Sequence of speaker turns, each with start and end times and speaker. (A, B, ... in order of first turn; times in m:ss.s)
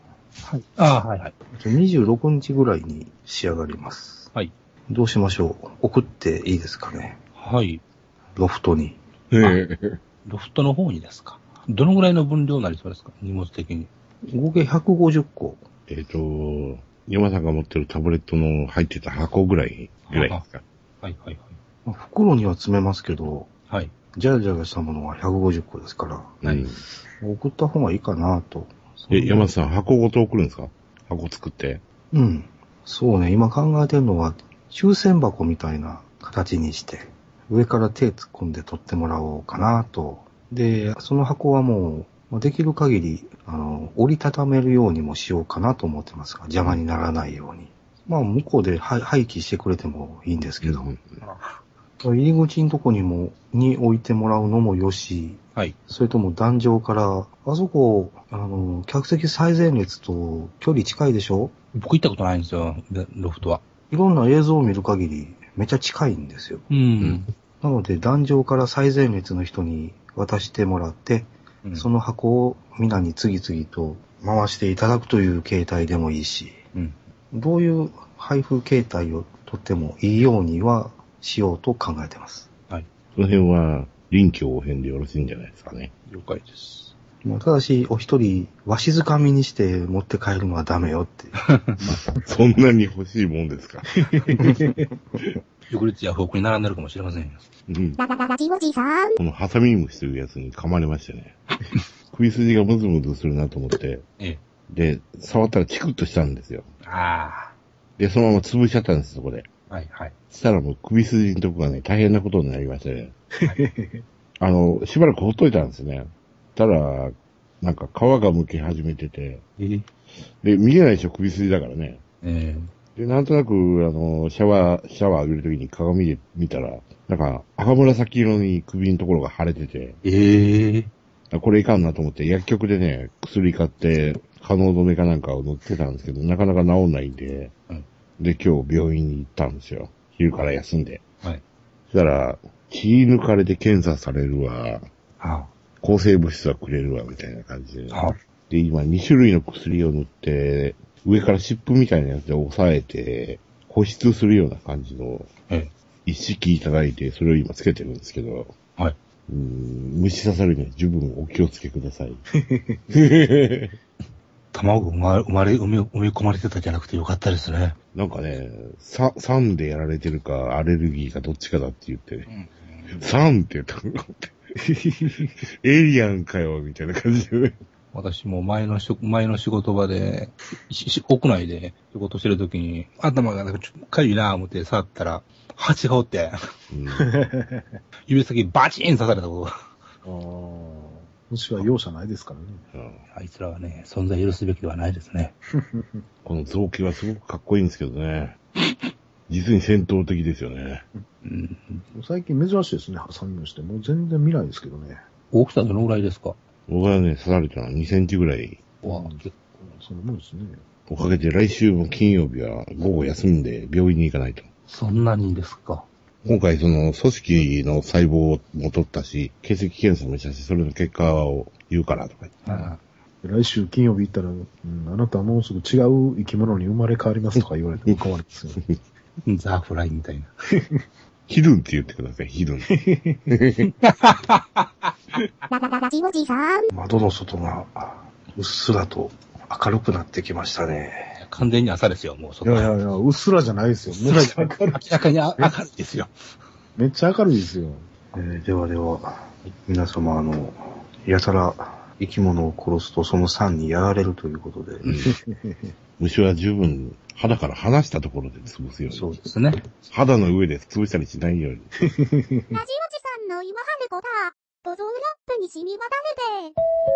0:00.4-0:01.3 A
0:01.5-0:04.3 B
0:04.9-0:07.2 B
0:07.4-0:07.8 A
0:08.4-0:09.0 B
0:09.3-0:10.0 C
0:10.2-0:13.9 A
0:14.2-0:15.6 B
0:15.9-0:20.6 C
0:20.1-0:20.4 A
0:21.0-0:21.6 A
0:21.8-0:23.5 B
0:24.1-0:26.4 B
0:26.4-0:26.8 A
0:26.4-0:26.7 C
0:27.2-0:29.4 B
0:29.1-0:31.8 C
0:32.1-0:50.9 B
0:50.6-0:51.0 C
0:51.2-0:51.5 A
0:52.0-1:01.5 B
1:01.7-1:03.6 A
1:03.9-1:06.7 B
1:06.7-1:07.3 A
1:07.6-1:16.6 B
1:17.3-1:22.5 B
1:23.1-1:25.9 C
1:26.1-1:26.9 A
1:27.2-1:31.4 B
1:31.4-1:31.8 A
1:32.1-1:34.0 C
1:34.1-1:34.8 D
1:35.7-1:37.4 A
1:37.7-1:38.0 C
1:38.0-1:39.2 E
1:39.2-1:41.4 C
1:42.1-1:44.0 C
1:44.7-1:46.7 C
1:46.8-1:47.5 A
1:48.0-1:49.5 C
1:49.7-1:50.1 A
1:50.3-1:53.1 C
1:53.4-1:54.0 D
1:54.4-1:59.4 C
1:59.6-1:59.8 A
2:00.4-2:02.0 C
2:02.2-2:02.7 A
2:03.0-2:10.0 C
2:10.0-2:10.9 A
2:11.3-2:17.5 C
2:18.2-2:21.0 C
2:21.9-2:24.9 C
2:25.2-2:25.5 A
2:25.8-2:35.3 C
2:27.9-2:28.2 A
2:36.0-2:38.5 C
2:39.3-2:42.2 C
2:42.5-2:42.8 D
2:42.9-2:43.8 C
2:44.5-2:47.8 A
2:47.9-2:52.3 C
2:52.3-2:53.0 A
2:52.9-2:54.3 C
2:54.7-2:55.3 D
2:55.4-2:57.6 C
2:57.9-3:06.4 A
3:06.7-3:07.1 C
3:06.9-3:07.7 D
3:08.1-3:09.5 A
3:10.0-3:12.6 D
3:12.7-3:13.0 C
3:13.1-3:15.3 A
3:16.2-3:18.4 C
3:19.3-3:20.8 C
3:21.2-3:21.8 A
3:21.9-3:25.0 D
3:25.3-3:26.4 A
3:26.7-3:28.6 C
3:28.8-3:29.3 A
3:28.8-3:30.6 D
3:30.9-3:34.5 C
3:34.7-3:35.9 A
3:36.2-3:42.4 C
3:42.4-3:42.8 A
3:43.2-3:48.6 D
3:49.2-3:50.3 A
3:51.3-3:53.7 C
3:52.7-3:53.3 D
3:53.6-3:55.3 A
3:55.5-3:56.7 E
3:56.7-4:01.2 B
4:01.2-4:02.7 A
4:02.4-4:04.9 D
4:03.9-4:06.1 A
4:06.8-4:07.9 D
4:08.1-4:14.8 B
4:14.8-4:15.1 C
4:15.0-4:15.7 D
4:16.0-4:19.2 C
4:18.9-4:19.7 A
4:19.8-4:21.7 C
4:22.0-4:22.5 D
4:22.5-4:26.5 E